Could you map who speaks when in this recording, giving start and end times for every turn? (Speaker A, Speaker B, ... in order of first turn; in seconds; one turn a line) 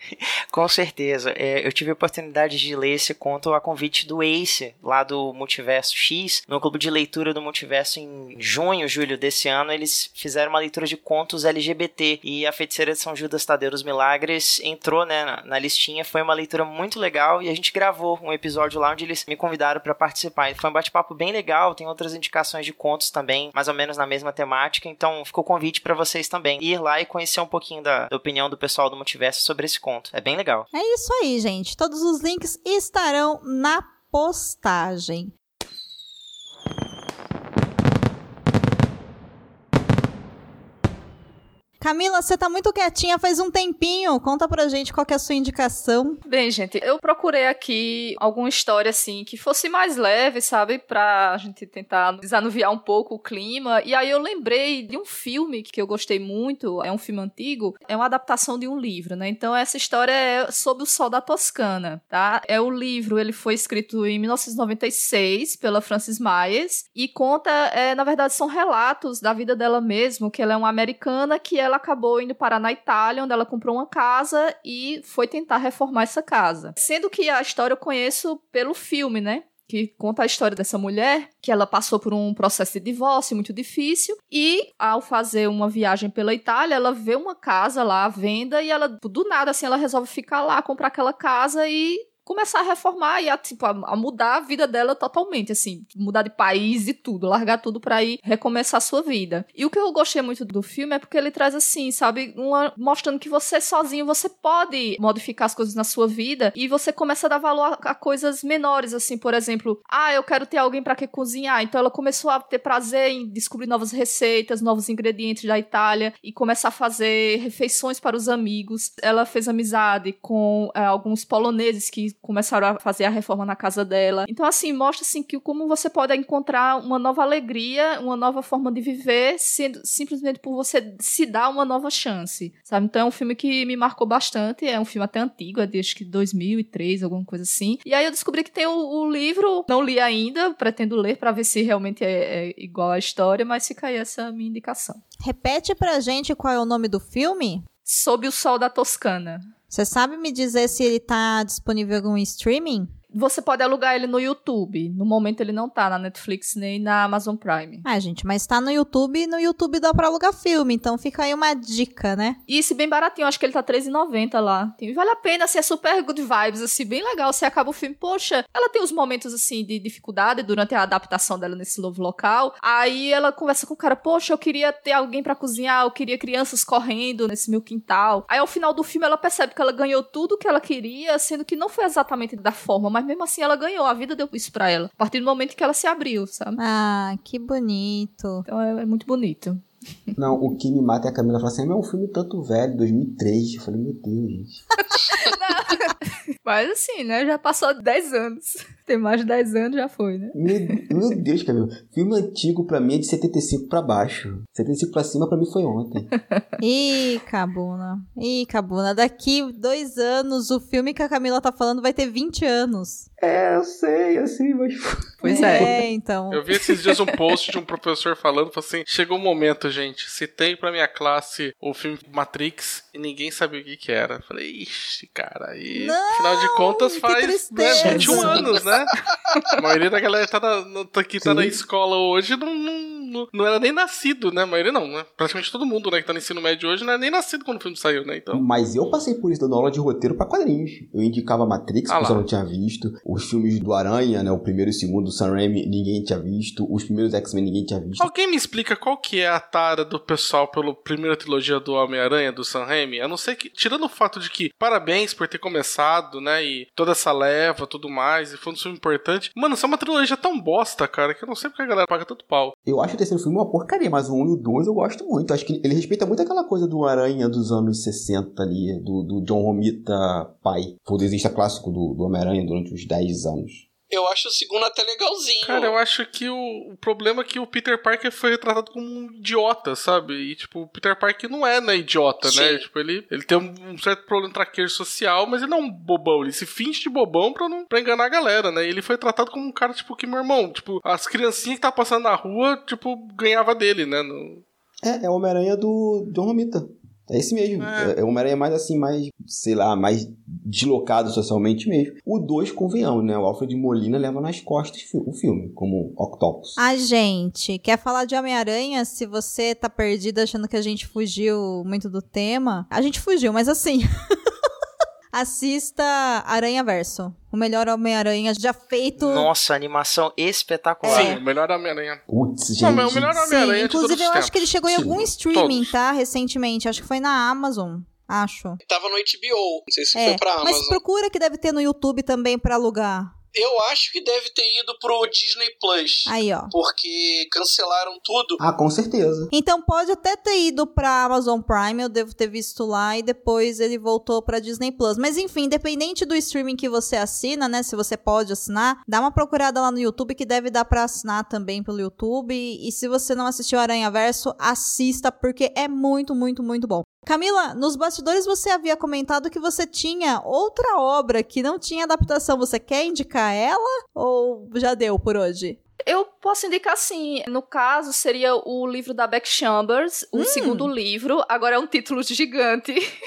Speaker A: 0.1-30.7
Speaker B: 30.7-35.3
Speaker B: 41.8-46.2
Speaker C: 46.2-145.0
Speaker B: 145.2-147.6
Speaker C: 147.8-149.5
Speaker B: 149.7-152.9
Speaker C: 153.1-157.8
Speaker B: 157.8-162.4
Speaker C: 162.5-186.6
Speaker B: 186.6-188.4
Speaker C: 188.5-190.1
Speaker D: 190.2-194.6
Speaker C: 195.0-200.8
Speaker D: 200.3-206.1
Speaker B: 206.6-213.1
Speaker D: 213.2-215.7
Speaker C: 215.2-215.8
Speaker B: 215.2-216.4
Speaker E: 216.3-228.9
Speaker B: 225.7-228.5
Speaker C: 227.9-228.4
Speaker E: 229.6-238.4
Speaker D: 231.2-231.6
Speaker D: 238.3-248.1
Speaker E: 241.9-242.2
Speaker E: 248.0-262.5
Speaker D: 262.6-273.6
Speaker F: 273.9-275.8
Speaker E: 275.4-294.4
Speaker F: 282.2-282.6
Speaker D: 294.8-306.6
Speaker B: 306.6-313.9
Speaker B: 315.1-319.3
Speaker A: 319.0-321.2
Speaker B: 320.8-321.2
Speaker E: 320.8-322.0
Speaker D: 322.1-323.3
Speaker E: 322.6-325.7
Speaker B: 323.2-328.6
Speaker D: 324.7-325.1
Speaker F: 328.7-330.8
Speaker B: 329.9-333.1
Speaker F: 333.3-338.4
Speaker B: 336.1-336.5
Speaker D: 338.4-339.3
Speaker B: 339.3-365.6
Speaker C: 365.8-372.8
Speaker B: 370.1-370.7